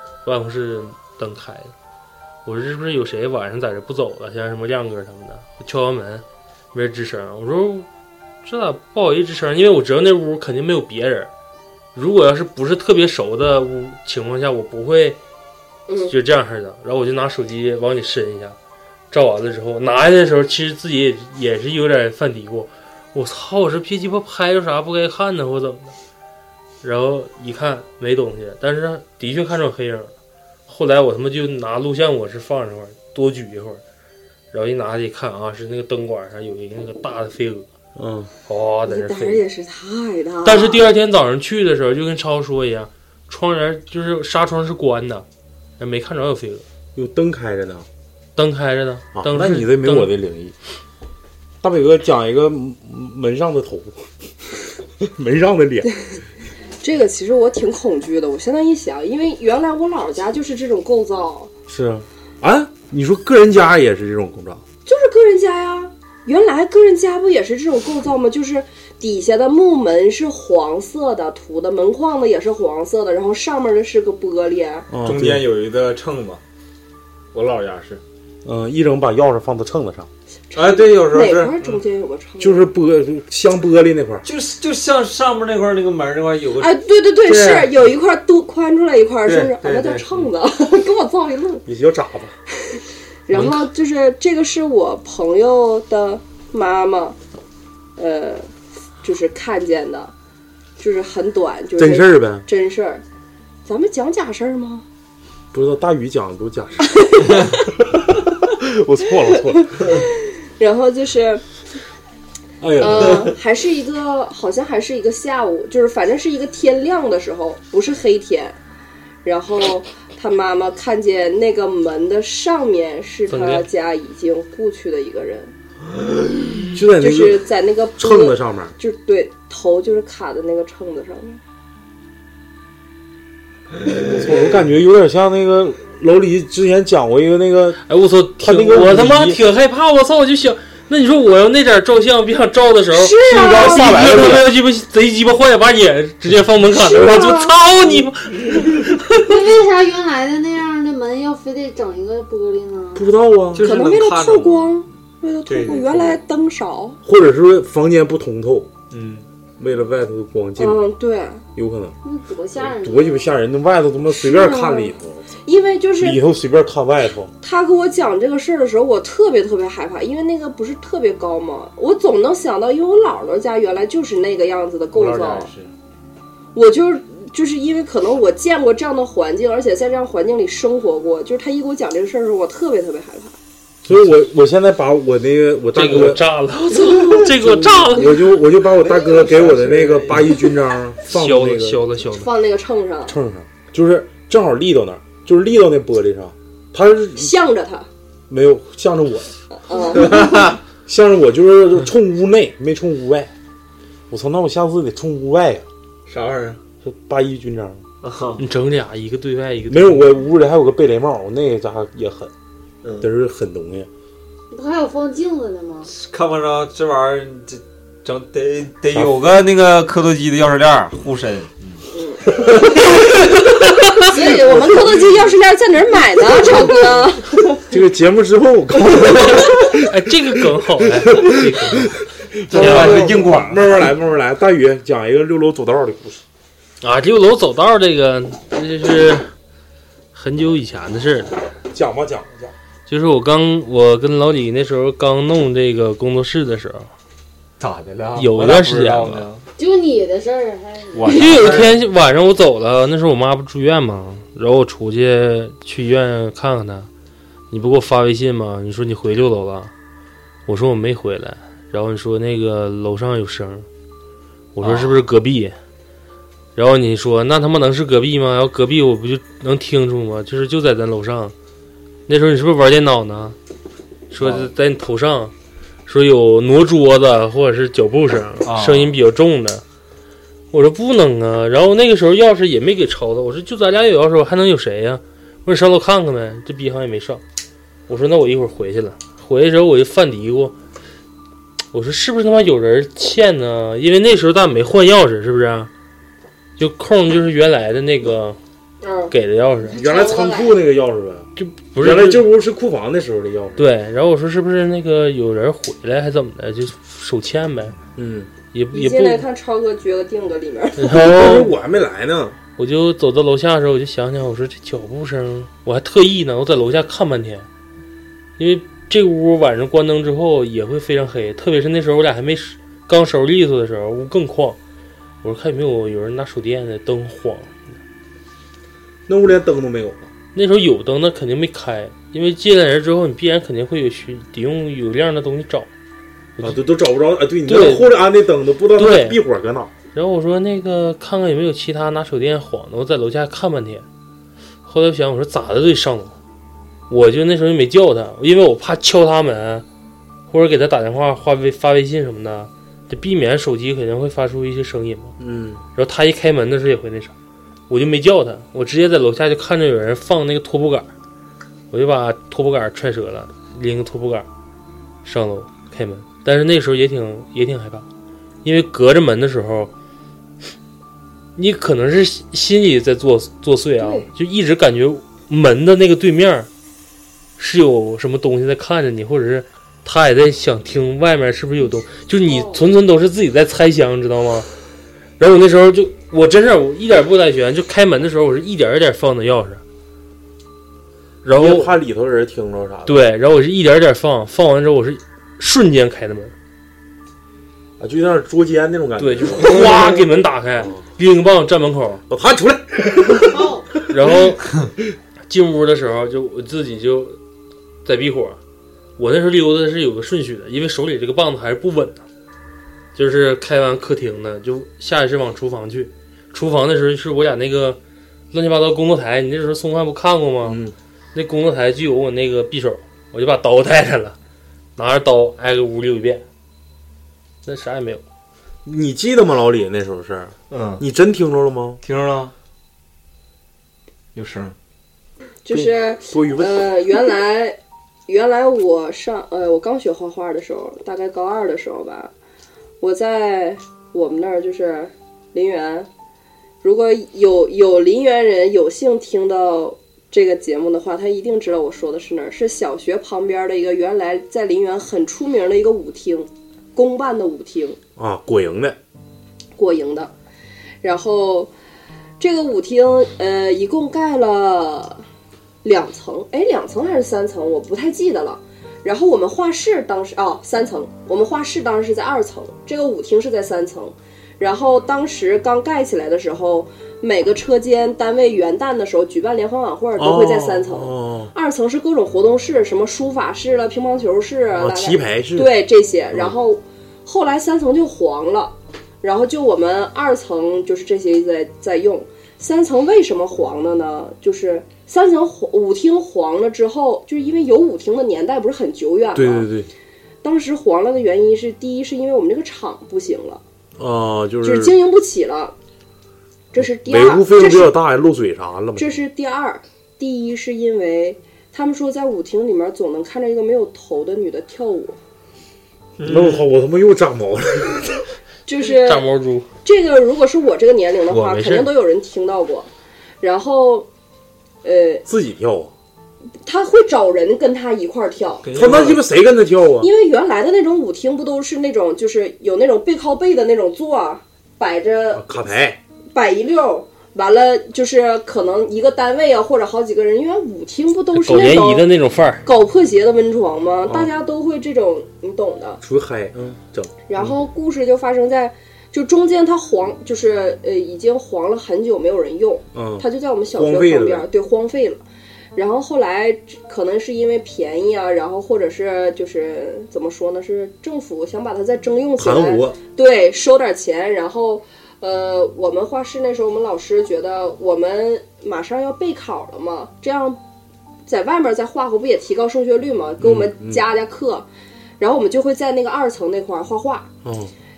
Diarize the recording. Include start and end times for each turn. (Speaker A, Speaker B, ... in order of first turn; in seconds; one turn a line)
Speaker A: 0.2-1.7
Speaker A: 2.4-7.9
Speaker A: 8.4-11.3
Speaker A: 11.9-15.2
Speaker B: 15.9-16.1
Speaker A: 16.0-18.6
Speaker A: 19.1-25.9
Speaker A: 26.8-30.1
Speaker A: 30.7-33.8
Speaker A: 34.5-37.7
Speaker C: 38.0-38.3
Speaker A: 38.5-39.4
Speaker B: 38.9-40.8
Speaker A: 40.4-45.2
Speaker A: 45.8-46.6
Speaker C: 46.9-47.9
Speaker A: 48.4-50.1
Speaker C: 49.1-50.5
Speaker C: 51.6-55.9
Speaker B: 56.8-61.5
Speaker C: 61.7-64.6
Speaker B: 64.8-74.9
Speaker C: 74.9-75.5
Speaker D: 75.0-76.4
Speaker D: 77.3-78.0
Speaker C: 78.4-80.1
Speaker B: 80.5-82.7
Speaker D: 80.5-81.8
Speaker C: 82.4-84.2
Speaker D: 84.2-86.7
Speaker B: 86.6-91.6
Speaker D: 87.3-87.7
Speaker D: 89.2-90.3
Speaker C: 91.7-92.3
Speaker B: 92.7-97.2
Speaker A: 93.3-93.7
Speaker B: 98.0-98.5
Speaker B: 99.0-100.1
Speaker B: 100.8-103.0
Speaker C: 101.8-102.5
Speaker B: 103.6-104.8
Speaker C: 105.5-110.0
Speaker B: 107.0-107.4
Speaker B: 109.8-110.0
Speaker B: 110.6-111.4
Speaker C: 112.6-113.3
Speaker B: 112.8-118.6
Speaker B: 119.2-125.5
Speaker A: 123.3-123.7
Speaker D: 126.5-126.7
Speaker C: 126.7-128.7
Speaker B: 127.0-131.4
Speaker C: 134.0-137.8
Speaker A: 137.9-149.3
Speaker C: 138.4-139.4
Speaker B: 142.9-144.2
Speaker C: 143.3-144.5
Speaker D: 143.3-144.4
Speaker B: 146.7-147.5
Speaker E: 149.2-153.1
Speaker C: 152.9-153.6
Speaker D: 153.5-154.8
Speaker B: 153.6-157.0
Speaker D: 155.5-156.2
Speaker C: 157.0-158.7
Speaker D: 158.9-159.2
Speaker C: 159.6-160.8
Speaker B: 160.6-161.4
Speaker C: 161.5-161.9
Speaker E: 162.0-163.3
Speaker C: 162.6-165.3
Speaker E: 164.2-164.9
Speaker B: 164.4-164.7
Speaker B: 165.4-166.2
Speaker C: 166.0-167.3
Speaker B: 167.4-175.5
Speaker D: 174.9-175.7
Speaker B: 176.5-183.4
Speaker C: 183.8-186.2
Speaker A: 185.7-188.2
Speaker C: 187.0-191.8
Speaker D: 188.7-190.4
Speaker A: 191.1-192.3
Speaker B: 192.1-193.2
Speaker C: 193.1-197.3
Speaker B: 197.2-197.9
Speaker C: 198.3-199.3
Speaker B: 199.5-200.3
Speaker D: 199.9-200.6
Speaker C: 200.0-203.3
Speaker C: 204.1-205.7
Speaker D: 206.1-206.6
Speaker C: 206.8-207.8
Speaker D: 208.0-208.4
Speaker A: 208.4-210.1
Speaker C: 209.7-212.3
Speaker D: 212.8-213.1
Speaker C: 213.0-213.9
Speaker E: 214.5-215.9
Speaker D: 215.9-221.8
Speaker C: 218.9-219.2
Speaker B: 221.9-222.3
Speaker D: 222.7-224.3
Speaker B: 224.0-227.6
Speaker C: 227.7-229.9
Speaker A: 229.8-233.1
Speaker C: 230.8-236.2
Speaker D: 232.5-233.7
Speaker A: 236.8-239.3
Speaker A: 240.1-241.3
Speaker C: 241.7-242.5
Speaker A: 242.9-246.9
Speaker D: 247.6-249.4
Speaker A: 248.1-249.3
Speaker E: 249.6-251.6
Speaker D: 250.9-251.8
Speaker A: 251.1-256.9
Speaker A: 257.5-259.7
Speaker A: 260.5-263.7
Speaker A: 264.6-265.5
Speaker D: 264.6-265.0
Speaker A: 266.6-271.3
Speaker A: 272.1-273.4
Speaker A: 274.1-275.3
Speaker D: 274.2-274.5
Speaker A: 275.9-279.6
Speaker D: 278.4-279.0
Speaker A: 280.5-287.2
Speaker A: 287.9-290.5
Speaker A: 291.7-295.7
Speaker A: 296.6-298.4
Speaker B: 298.8-299.1
Speaker A: 299.1-299.8
Speaker B: 299.7-300.5
Speaker C: 299.7-303.7
Speaker A: 301.4-302.2
Speaker A: 303.6-307.8
Speaker C: 307.9-308.3
Speaker A: 308.5-309.2
Speaker B: 308.7-310.9
Speaker A: 310.8-311.5
Speaker C: 310.8-312.4
Speaker A: 312.6-317.5
Speaker A: 318.4-324.6
Speaker A: 325.2-327.5
Speaker C: 329.1-330.1
Speaker A: 330.3-335.7
Speaker C: 336.4-339.7
Speaker A: 337.5-337.9
Speaker A: 338.8-339.2
Speaker A: 339.9-343.9
Speaker A: 344.6-346.1
Speaker A: 346.9-349.6
Speaker A: 350.3-355.1
Speaker C: 355.2-355.6
Speaker A: 355.8-357.1
Speaker A: 357.7-360.9
Speaker A: 361.7-364.3
Speaker A: 365.0-367.9
Speaker A: 368.4-369.7
Speaker A: 371.4-376.5
Speaker B: 373.8-374.1
Speaker A: 377.4-384.5
Speaker A: 385.2-389.6
Speaker A: 391.2-391.7
Speaker C: 391.3-393.0
Speaker A: 392.9-396.3
Speaker C: 397.8-399.9
Speaker A: 399.0-402.0
Speaker D: 399.4-399.9
Speaker C: 400.6-400.8
Speaker C: 402.1-404.2
Speaker E: 403.3-403.6
Speaker A: 403.8-404.6
Speaker A: 405.3-407.2
Speaker A: 407.8-408.4
Speaker A: 409.0-412.0
Speaker A: 412.9-417.8
Speaker A: 418.3-420.6
Speaker C: 420.4-420.8
Speaker A: 421.1-424.1
Speaker A: 424.8-426.2
Speaker A: 427.4-428.0
Speaker C: 428.6-431.8
Speaker D: 430.5-430.8
Speaker D: 431.8-432.3
Speaker D: 434.1-434.5
Speaker B: 435.4-442.1
Speaker C: 435.5-436.6
Speaker B: 442.8-445.9
Speaker B: 446.6-457.8
Speaker C: 458.0-458.8
Speaker B: 459.6-460.1
Speaker B: 460.8-461.5
Speaker B: 462.2-465.0
Speaker B: 465.6-499.5
Speaker C: 480.0-481.3
Speaker C: 484.5-485.5
Speaker C: 499.1-499.7
Speaker B: 500.2-503.4
Speaker C: 503.8-504.7
Speaker B: 504.4-505.5
Speaker B: 506.5-507.7
Speaker C: 506.6-509.0
Speaker B: 508.8-515.0
Speaker D: 516.0-516.5
Speaker C: 516.0-518.1
Speaker B: 518.5-519.1
Speaker A: 518.6-519.5
Speaker B: 519.6-522.7
Speaker A: 521.1-521.7
Speaker B: 523.2-523.9
Speaker B: 524.6-525.0
Speaker C: 525.0-525.7
Speaker B: 526.4-528.5
Speaker D: 528.4-529.0
Speaker C: 528.5-529.9
Speaker B: 529.8-535.3
Speaker C: 535.1-535.8
Speaker B: 536.1-541.9
Speaker A: 541.1-542.4
Speaker B: 542.4-545.8
Speaker C: 543.9-544.1
Speaker C: 545.8-547.3
Speaker B: 547.1-555.0
Speaker C: 552.7-554.3
Speaker B: 555.5-570.4
Speaker C: 562.2-562.8
Speaker B: 571.1-574.5
Speaker C: 573.2-573.8
Speaker B: 575.0-577.1
Speaker C: 577.2-577.5